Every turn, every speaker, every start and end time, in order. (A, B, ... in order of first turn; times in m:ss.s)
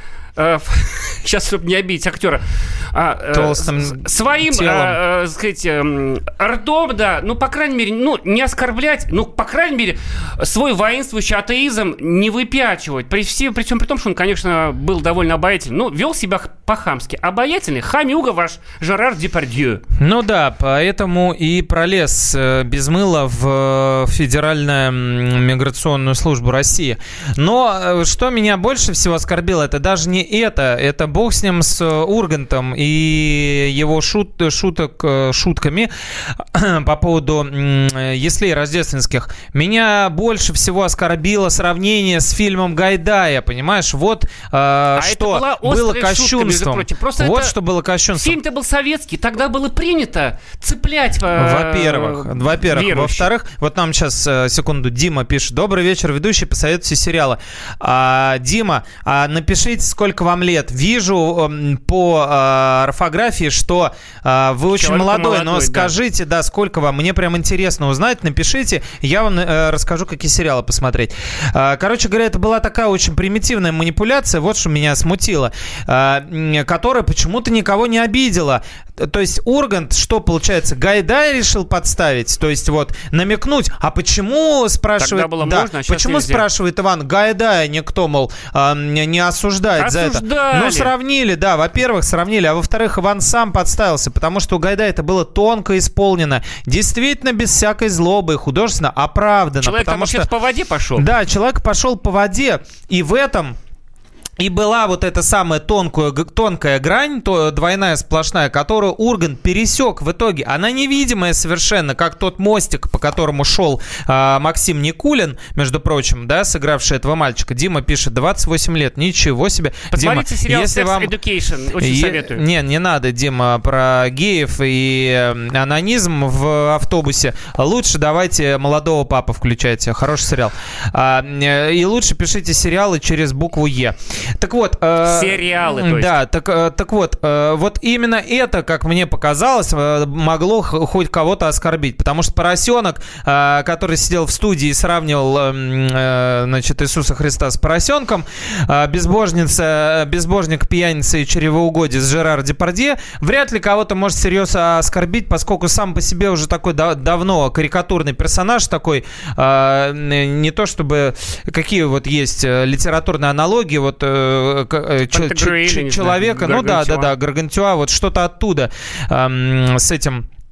0:00.4-0:19.8 A
0:03.3-0:05.0 B
0:20.0-0:48.4 B
0:45.0-0:47.6 A
0:48.2-0:53.3 A
0:51.4-1:40.3 B
1:04.7-1:05.9 A
1:25.0-1:26.5 A
1:29.8-1:30.9 A
1:39.6-1:41.1 A
1:41.0-1:43.6 B
1:44.4-2:01.1 B
1:59.9-2:02.4 A
2:01.8-2:50.3 B
2:15.0-2:16.1 A
2:45.1-2:47.1 A